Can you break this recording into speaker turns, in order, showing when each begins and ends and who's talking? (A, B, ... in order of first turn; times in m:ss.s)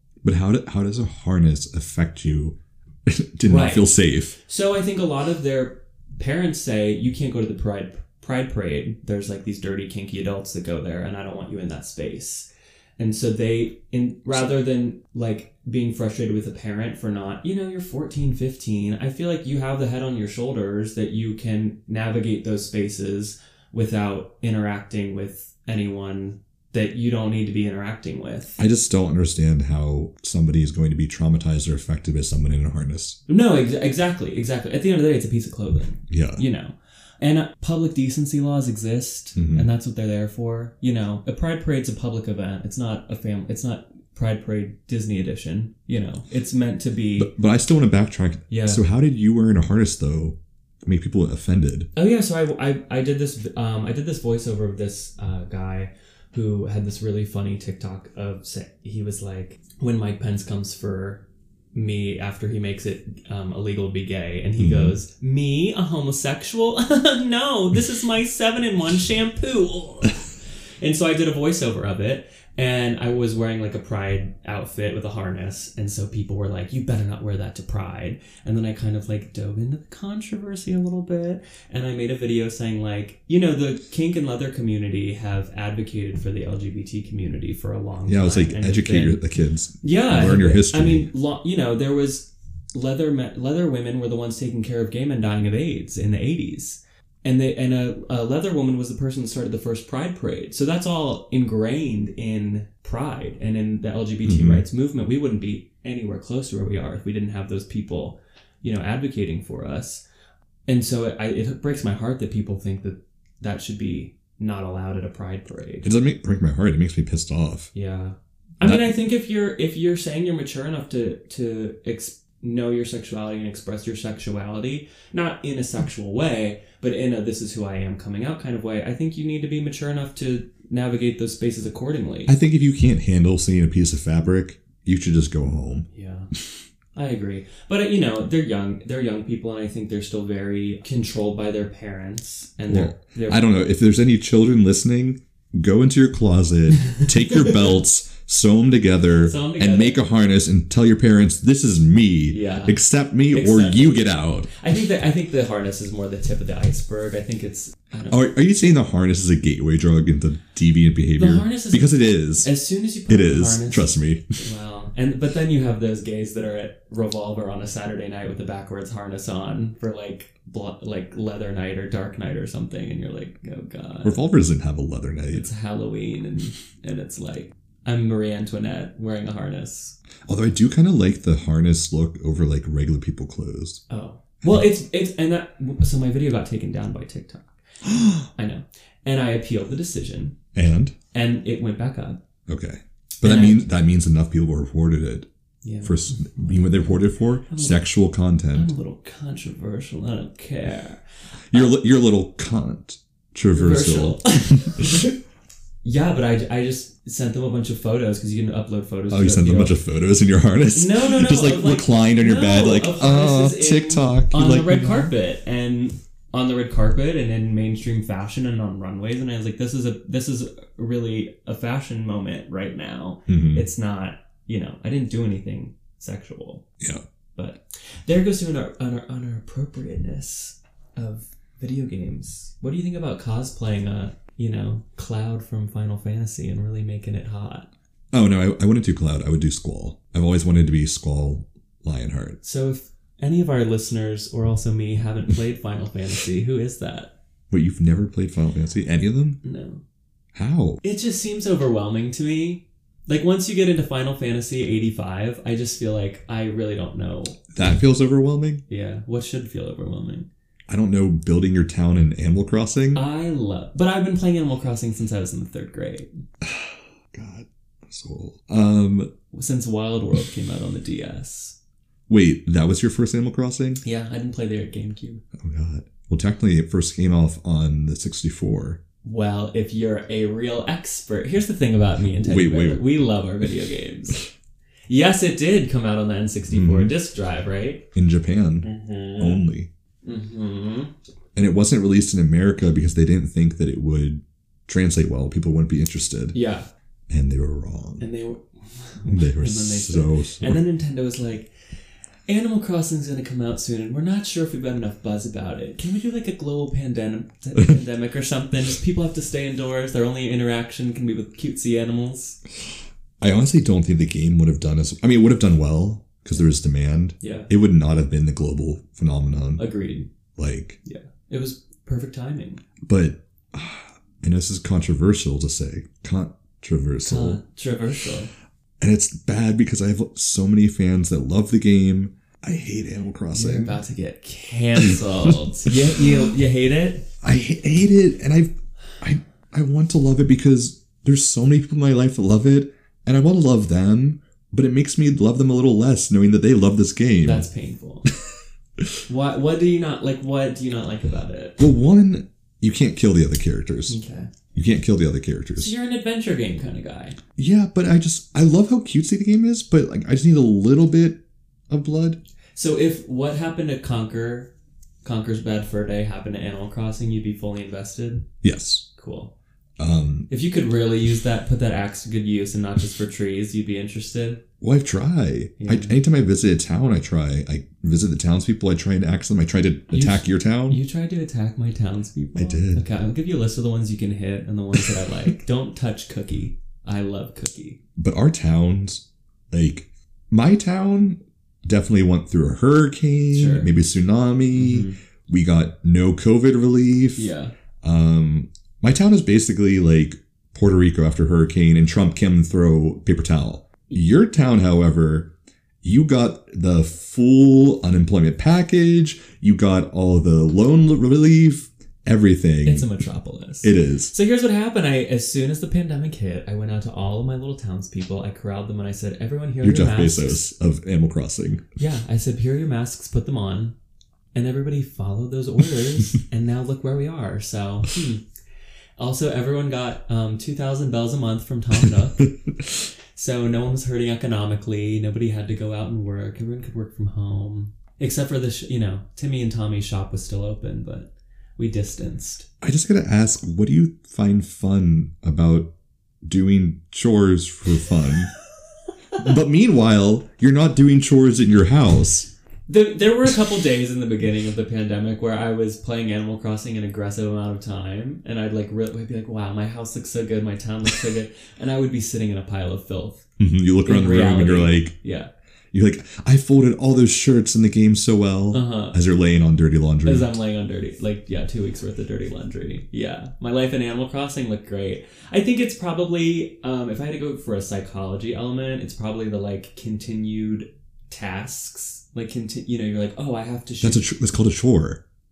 0:00.2-0:04.4 A
0:03.5-0:03.9 B
0:04.4-0:28.6 B
0:28.6-0:33.2 A
0:33.3-0:47.3 B
0:36.1-0:36.4 A
0:39.4-0:39.7 A
0:47.2-0:51.9 A
0:48.5-0:48.8 B
0:52.0-1:29.2 B
1:04.6-1:05.0 A
1:28.1-1:31.1 A
1:29.8-1:50.0 B
1:44.2-1:44.6 A
1:50.7-1:55.9 B
1:55.8-1:57.7 A
1:57.7-2:12.3 B
1:58.6-1:58.9 A
2:12.3-2:15.9 A
2:15.9-2:16.3 B
2:17.0-2:23.4 B
2:22.7-2:34.5 A
2:29.2-2:30.0 B
2:32.3-2:32.8 B
2:33.3-2:38.3 B
2:38.1-2:42.5 A
2:41.2-2:54.2 B
2:43.1-2:44.2 A
2:54.0-2:55.5 A
2:55.3-3:00.0 B
3:00.3-3:03.8 A
3:03.9-3:07.6 B
3:04.4-3:04.7 A
3:07.9-3:08.3 A
3:08.3-3:10.4 B
3:10.6-3:11.0 A
3:11.1-3:12.2 B
3:12.5-3:15.3 A
3:13.2-3:13.7 B
3:15.6-3:16.9 B
3:15.8-3:18.7 A
3:17.5-3:17.8 B
3:18.5-3:21.0 B
3:21.5-3:25.0 A
3:23.5-3:25.2 B
3:25.8-3:29.8 B
3:29.1-3:35.1 A
3:30.7-3:46.6 B
3:43.3-3:43.6 A
3:47.4-3:57.7 B
3:58.1-4:02.4 A
4:02.4-4:07.1 B
4:07.5-4:09.4 A
4:09.4-4:09.8 B
4:10.4-4:10.8 A
4:10.8-4:17.4 B
4:17.5-4:18.6 A
4:18.7-4:20.3 B
4:20.7-4:23.0 A
4:22.9-4:26.2 B
4:26.4-4:29.1 A
4:29.3-4:31.6 B
4:32.1-4:33.8 A
4:33.8-4:35.2 B
4:35.4-4:38.8 A
4:39.0-4:44.3 B
4:42.1-4:42.9 A
4:44.9-4:47.9 B
4:46.5-4:46.9 A
4:48.0-4:48.7 A
4:48.6-4:49.4 B
4:49.2-4:49.7 A
4:50.0-4:50.9 B
4:51.4-4:56.4 A
4:56.3-4:56.7 B
4:57.1-4:58.0 A
4:58.0-5:01.5 B
4:59.0-5:00.6 A
5:02.3-5:12.4 B
5:13.2-5:19.7 A
5:17.2-5:17.5 B
5:19.6-5:20.1 B
5:20.4-5:20.8 A
5:20.8-5:22.6 B
5:22.8-5:27.4 A
5:27.0-5:28.3 B
5:28.8-5:33.8 A
5:33.3-5:37.1 B
5:34.8-5:36.2 A
5:37.2-5:47.5 A
5:47.2-5:48.1 B
5:49.1-5:51.6 B
5:51.6-5:54.0 A
5:53.9-5:54.3 B
5:54.5-5:55.7 A
5:55.6-5:57.2 B
5:57.4-6:02.2 A
6:02.6-6:08.3 B
6:08.4-6:08.9 A
6:09.0-6:09.3 B
6:09.8-6:10.3 A
6:10.3-6:14.4 B
6:14.6-6:20.8 A
6:15.6-6:16.0 B
6:19.9-6:27.8 B
6:22.4-6:22.9 A
6:28.0-6:45.3 A
6:33.3-6:33.7 B
6:34.5-6:35.0 B
6:37.2-6:37.5 B
6:45.8-6:52.9 A
6:52.6-7:00.4 B
6:53.6-6:54.1 A
6:59.6-7:01.6 A
7:01.8-7:03.8 B
7:04.4-7:08.2 B
7:09.0-7:12.3 B
7:13.2-7:22.5 B
7:22.6-7:25.7 A
7:26.2-7:28.3 A
7:29.2-7:32.3 A
7:32.7-7:43.2 B
7:43.4-7:44.9 A
7:43.8-7:45.3 B
7:45.7-7:50.3 A
7:48.5-7:49.0 B
7:50.0-8:04.0 B
8:03.8-8:05.0 A